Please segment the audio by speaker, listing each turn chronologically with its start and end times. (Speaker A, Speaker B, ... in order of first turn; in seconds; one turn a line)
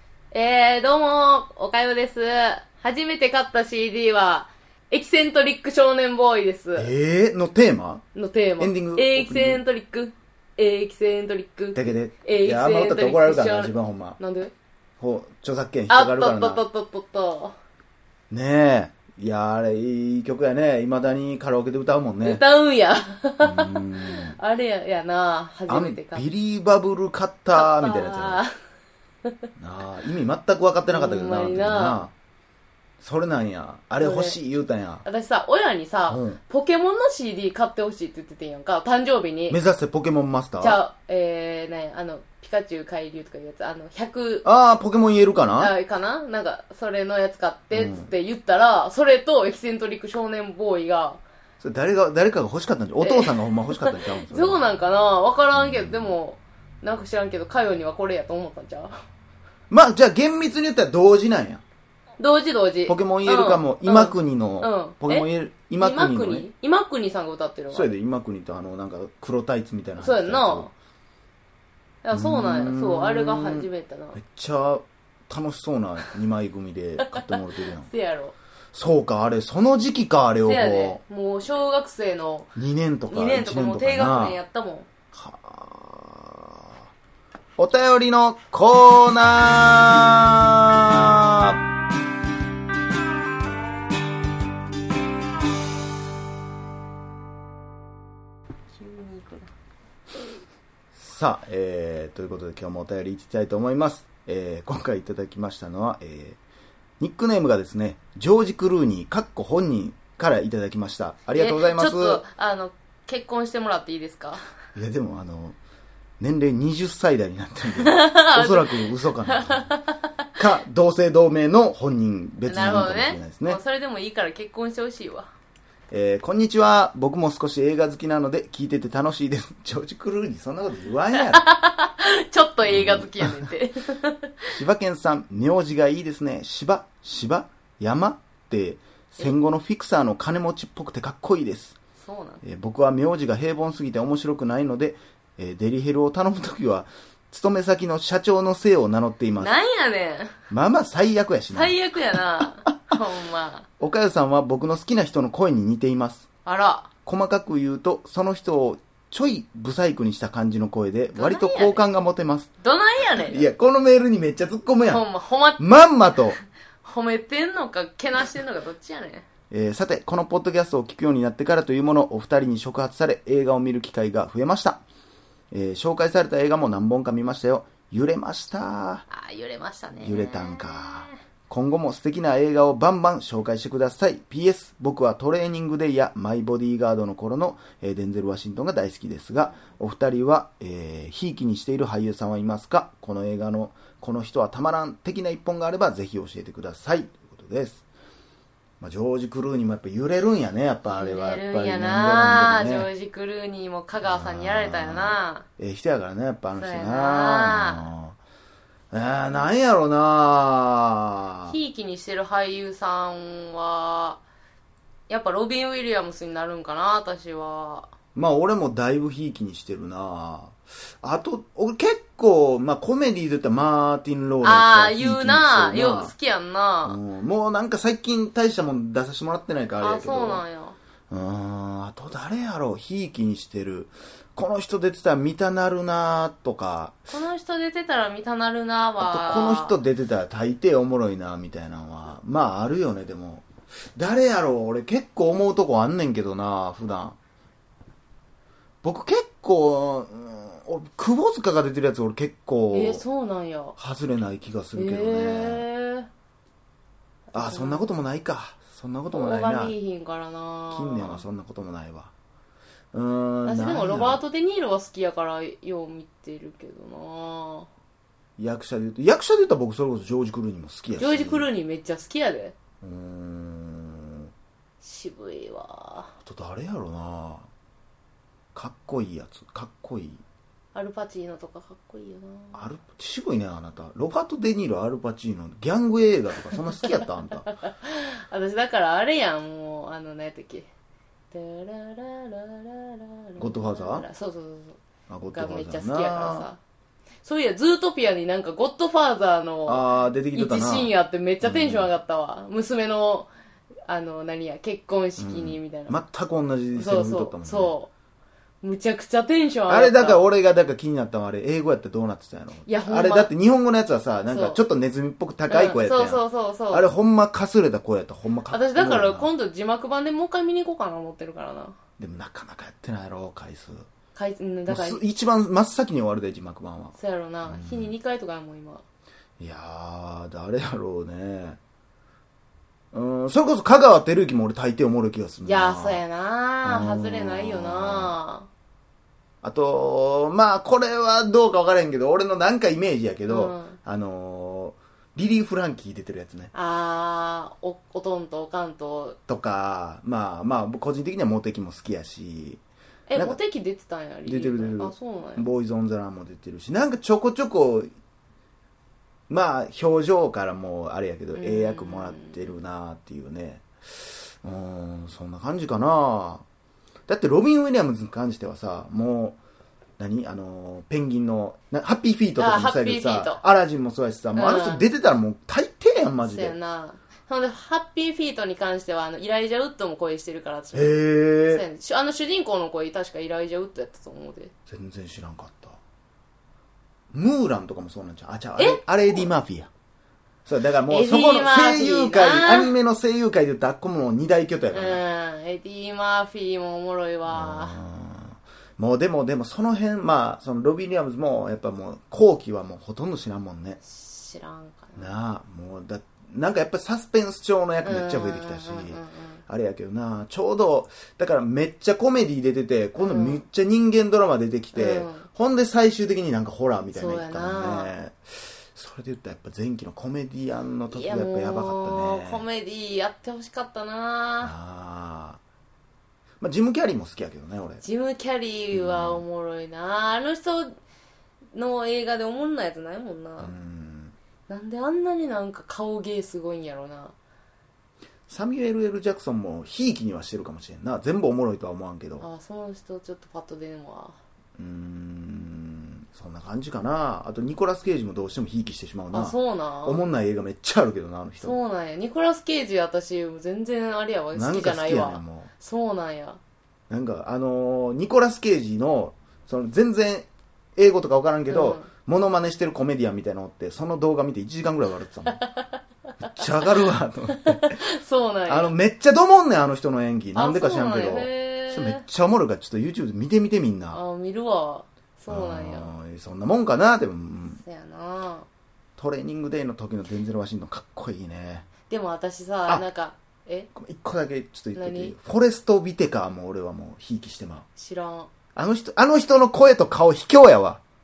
Speaker A: 0.3-6.9
Speaker B: 6.8-8.0
Speaker A: 8.1-14.5
Speaker B: 8.6-9.6
Speaker B: 11.7-14.2
Speaker B: 15.0-16.6
Speaker A: 15.9-17.6
Speaker B: 18.3-22.4
Speaker A: 22.2-26.2
Speaker B: 23.4-24.4
Speaker B: 25.7-28.4
Speaker A: 27.5-28.5
Speaker B: 29.6-32.1
Speaker A: 30.9-32.0
Speaker B: 33.0-35.0
Speaker A: 34.0-34.4
Speaker A: 35.0-39.6
Speaker B: 36.1-36.4
Speaker B: 39.5-40.8
Speaker A: 40.6-44.4
Speaker B: 44.4-45.7
Speaker A: 45.6-51.2
Speaker B: 47.7-48.1
Speaker B: 51.6-54.7
Speaker A: 53.0-58.9
Speaker B: 59.7-61.6
Speaker A: 62.2-67.9
Speaker B: 62.9-66.5
Speaker B: 67.7-70.7
Speaker A: 70.0-70.7
Speaker A: 72.0-74.2
Speaker B: 72.1-77.9
Speaker A: 77.0-78.3
Speaker B: 78.7-81.0
Speaker A: 80.4-82.5
Speaker B: 82.5-84.4
Speaker A: 83.1-84.9
Speaker B: 85.1-86.9
Speaker B: 87.6-91.6
Speaker A: 98.7-99.5
Speaker B: 100.9-106.4
Speaker B: 107.0-112.2
Speaker A: 111.3-114.4
Speaker B: 114.8-115.6
Speaker B: 116.2-119.7
Speaker A: 117.8-120.0
Speaker B: 120.4-123.6
Speaker A: 122.5-125.3
Speaker B: 125.9-131.4
Speaker A: 131.2-134.5
Speaker B: 132.6-133.5
Speaker B: 134.5-141.8
Speaker A: 142.0-142.4
Speaker B: 142.4-149.6
Speaker A: 149.4-150.3
Speaker B: 150.5-151.8
Speaker A: 151.5-153.7
Speaker B: 153.8-156.3
Speaker A: 156.4-156.9
Speaker B: 157.1-162.5
Speaker A: 161.1-161.8
Speaker A: 162.6-163.5
Speaker B: 163.2-165.1
Speaker A: 164.8-165.6
Speaker B: 165.6-166.4
Speaker A: 166.8-169.2
Speaker B: 169.5-174.8
Speaker B: 175.5-179.0
Speaker A: 179.1-181.2
Speaker B: 180.0-197.8
Speaker B: 198.8-202.9
Speaker A: 200.8-205.4
Speaker B: 204.0-208.2
Speaker A: 206.6-207.8
Speaker B: 208.9-211.6
Speaker A: 211.5-214.2
Speaker A: 215.1-217.9
Speaker B: 218.1-226.1
Speaker A: 224.4-227.0
Speaker B: 226.8-230.4
Speaker A: 229.8-230.8
Speaker B: 231.1-237.1
Speaker A: 237.1-239.8
Speaker B: 239.0-247.2
Speaker B: 248.8-253.0
Speaker A: 252.7-253.7
Speaker B: 253.8-255.7
Speaker A: 254.7-256.1
Speaker A: 257.3-257.9
Speaker B: 257.3-259.7
Speaker A: 259.1-261.2
Speaker B: 260.7-262.1
Speaker B: 262.9-264.2
Speaker A: 263.4-267.7
Speaker B: 268.4-271.5
Speaker A: 271.0-272.5
Speaker B: 272.8-274.3
Speaker A: 274.8-276.1
Speaker B: 276.2-277.5
Speaker B: 278.5-280.2
Speaker A: 280.7-282.6
Speaker B: 282.5-287.5
Speaker A: 287.6-290.7
Speaker A: 291.3-294.8
Speaker B: 293.4-294.1
Speaker B: 295.1-296.5
Speaker A: 295.3-296.6
Speaker A: 297.2-303.3
Speaker B: 299.6-301.9
Speaker A: 303.9-306.0
Speaker B: 305.2-307.8
Speaker A: 306.7-307.9
Speaker A: 308.6-310.2
Speaker B: 309.7-319.3
Speaker A: 312.6-313.3
Speaker A: 314.3-314.6
Speaker A: 315.5-316.9
Speaker A: 318.5-321.8
Speaker B: 322.0-323.9
Speaker A: 324.1-325.0
Speaker B: 324.7-327.9
Speaker A: 326.9-328.8
Speaker B: 329.4-331.6
Speaker B: 332.9-336.0
Speaker A: 335.4-338.5
Speaker B: 336.6-338.1
Speaker B: 339.4-346.5
Speaker A: 343.3-343.8
Speaker A: 346.5-349.2
Speaker B: 349.3-352.6
Speaker A: 353.1-355.5
Speaker B: 354.2-357.9
Speaker B: 359.3-366.4
Speaker A: 361.3-362.5
Speaker B: 367.1-369.4
Speaker B: 370.0-376.5
Speaker A: 372.4-373.4
Speaker A: 374.3-374.9
Speaker A: 376.2-384.5
Speaker B: 380.7-381.6
Speaker B: 384.7-385.8
Speaker B: 387.1-389.7
Speaker A: 388.6-389.3
Speaker B: 390.4-395.0
Speaker A: 390.9-392.7
Speaker A: 394.7-397.8
Speaker B: 397.3-403.8
Speaker A: 403.8-405.1
Speaker B: 404.9-422.4
Speaker A: 407.8-409.4
Speaker A: 413.0-413.4
Speaker A: 414.7-415.2
Speaker A: 416.9-417.9
Speaker A: 420.9-424.5
Speaker B: 424.4-425.4
Speaker B: 426.4-427.8
Speaker A: 427.8-430.7
Speaker B: 428.7-429.2
Speaker A: 431.5-433.5
Speaker B: 433.4-434.1
Speaker A: 434.5-437.1
Speaker B: 438.3-442.3
Speaker A: 442.2-444.2
Speaker B: 444.6-451.6
Speaker A: 449.1-450.0
Speaker A: 451.4-456.4
Speaker B: 454.3-455.5
Speaker B: 456.9-465.4
Speaker A: 461.5-461.9
Speaker B: 466.2-467.8
Speaker A: 467.4-468.7
Speaker B: 468.5-474.0
Speaker A: 470.3-472.0
Speaker A: 473.9-475.9
Speaker B: 475.3-477.6
Speaker A: 477.5-478.4
Speaker B: 479.0-481.7
Speaker A: 481.9-483.7
Speaker B: 483.7-487.6
Speaker A: 484.8-485.1
Speaker A: 487.8-488.3
Speaker B: 488.5-490.8